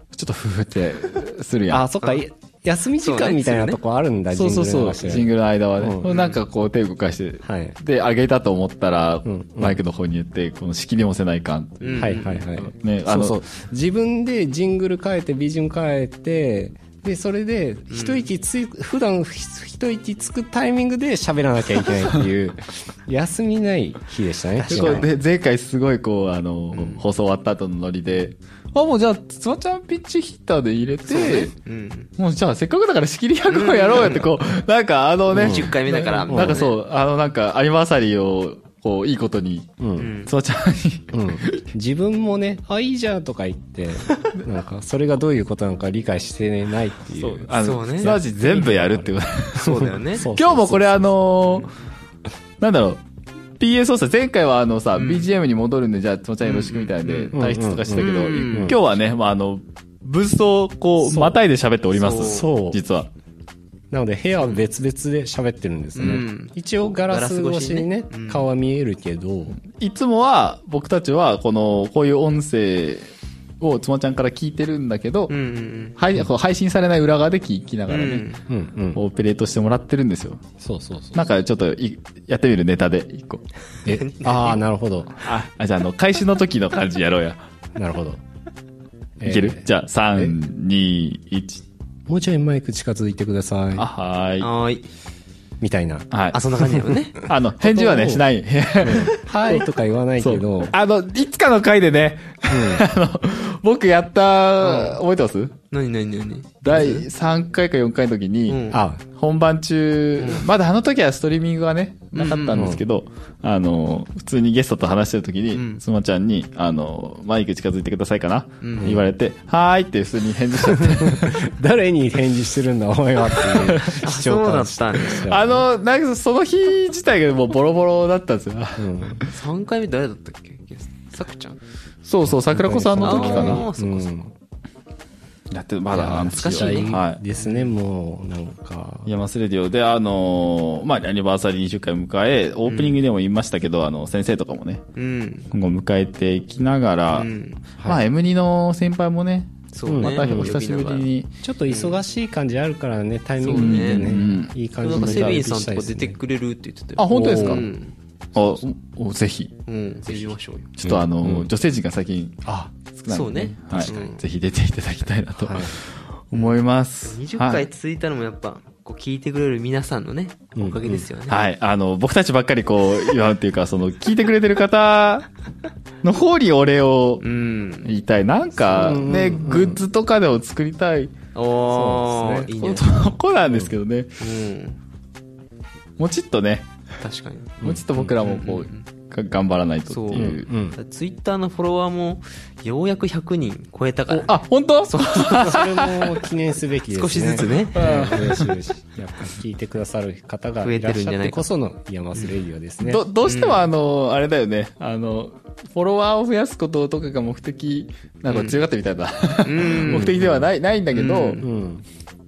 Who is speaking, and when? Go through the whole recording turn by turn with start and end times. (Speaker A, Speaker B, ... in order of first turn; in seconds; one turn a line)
Speaker A: 0.1-1.8
Speaker B: 1.7-6.1
Speaker C: 3.0-3.8
Speaker A: 4.3-12.2
Speaker C: 6.0-6.4
Speaker B: 7.4-7.8
Speaker B: 9.2-9.8
Speaker C: 11.8-12.5
Speaker B: 12.0-25.1
Speaker A: 12.7-13.4
Speaker C: 17.9-18.2
Speaker C: 24.6-25.1
Speaker A: 24.7-31.5
Speaker C: 26.7-27.0
Speaker C: 31.1-32.1
Speaker A: 32.2-39.7
Speaker C: 33.5-34.3
Speaker C: 35.3-36.8
Speaker B: 35.3-35.7
Speaker B: 36.3-36.6
Speaker B: 39.8-40.1
Speaker C: 40.0-40.3
Speaker A: 40.2-41.6
Speaker B: 41.1-49.1
Speaker A: 47.1-51.7
Speaker C: 47.5-48.2
Speaker C: 49.5-50.3
Speaker B: 49.8-51.3
Speaker A: 52.6-53.0
Speaker A: 53.6-63.1
Speaker C: 54.9-55.3
Speaker C: 56.4-57.3
Speaker B: 57.3-58.8
Speaker C: 57.9-58.8
Speaker B: 61.0-61.4
Speaker C: 61.9-62.5
Speaker B: 62.1-62.8
Speaker B: 63.9-69.6
Speaker C: 65.9-68.4
Speaker A: 69.7-75.3
Speaker C: 75.3-76.0
Speaker A: 76.0-78.3
Speaker C: 77.9-78.4
Speaker B: 78.5-79.0
Speaker A: 78.9-80.4
Speaker B: 80.6-81.2
Speaker A: 81.1-83.4
Speaker B: 83.9-85.2
Speaker C: 83.9-84.5
Speaker A: 84.2-84.6
Speaker A: 85.2-87.4
Speaker B: 87.7-88.2
Speaker B: 89.2-90.3
Speaker A: 89.2-91.6
Speaker B: 92.1-93.9
Speaker A: 93.7-94.5
Speaker C: 94.4-94.9
Speaker B: 95.6-96.1
Speaker A: 96.1-96.4
Speaker C: 96.3-97.2
Speaker A: 97.2-99.6
Speaker B: 97.6-98.2
Speaker B: 98.8-100.7
Speaker A: 100.2-105.5
Speaker B: 102.5-102.8
Speaker C: 104.6-105.0
Speaker C: 105.7-107.1
Speaker A: 106.6-121.4
Speaker C: 108.5-108.8
Speaker B: 108.7-109.0
Speaker C: 110.2-110.5
Speaker C: 112.1-112.8
Speaker B: 112.5-112.8
Speaker C: 115.5-115.8
Speaker C: 118.6-119.0
Speaker B: 118.8-119.0
Speaker B: 120.9-125.7
Speaker A: 123.5-124.0
Speaker C: 123.7-125.2
Speaker A: 125.3-129.3
Speaker B: 128.8-129.2
Speaker C: 129.3-131.6
Speaker A: 132.0-133.6
Speaker B: 132.5-134.3
Speaker C: 133.0-134.1
Speaker A: 135.5-137.2
Speaker B: 135.9-139.1
Speaker C: 135.9-137.7
Speaker A: 139.1-144.8
Speaker C: 142.7-143.0
Speaker C: 144.9-145.5
Speaker A: 145.5-147.3
Speaker C: 147.1-147.6
Speaker A: 147.8-151.3
Speaker C: 149.7-151.1
Speaker B: 149.9-150.6
Speaker B: 151.4-156.2
Speaker C: 151.7-152.0
Speaker C: 153.4-157.9
Speaker A: 153.5-155.4
Speaker A: 157.0-157.7
Speaker B: 157.1-157.7
Speaker A: 158.3-159.5
Speaker C: 159.7-160.7
Speaker A: 160.8-167.7
Speaker B: 160.8-161.5
Speaker C: 163.1-164.2
Speaker B: 163.8-164.0
Speaker B: 165.4-165.8
Speaker C: 166.3-171.4
Speaker B: 170.6-171.0
Speaker A: 171.3-175.3
Speaker A: 176.0-177.2
Speaker C: 177.2-177.9
Speaker A: 177.8-181.1
Speaker B: 178.6-179.8
Speaker C: 181.3-182.9
Speaker B: 181.7-182.4
Speaker A: 181.9-184.1
Speaker C: 184.2-184.8
Speaker A: 186.0-186.7
Speaker C: 187.0-188.9
Speaker B: 187.6-187.9
Speaker A: 187.6-190.4
Speaker C: 189.9-195.5
Speaker B: 190.1-190.8
Speaker A: 194.1-196.1
Speaker B: 195.1-203.0
Speaker C: 196.9-198.2
Speaker A: 197.7-198.5
Speaker C: 200.6-201.4
Speaker A: 202.8-211.4
Speaker C: 203.2-203.7
Speaker C: 208.3-208.6
Speaker C: 209.4-210.3
Speaker B: 209.9-210.5
Speaker C: 210.9-211.4
Speaker B: 211.4-211.8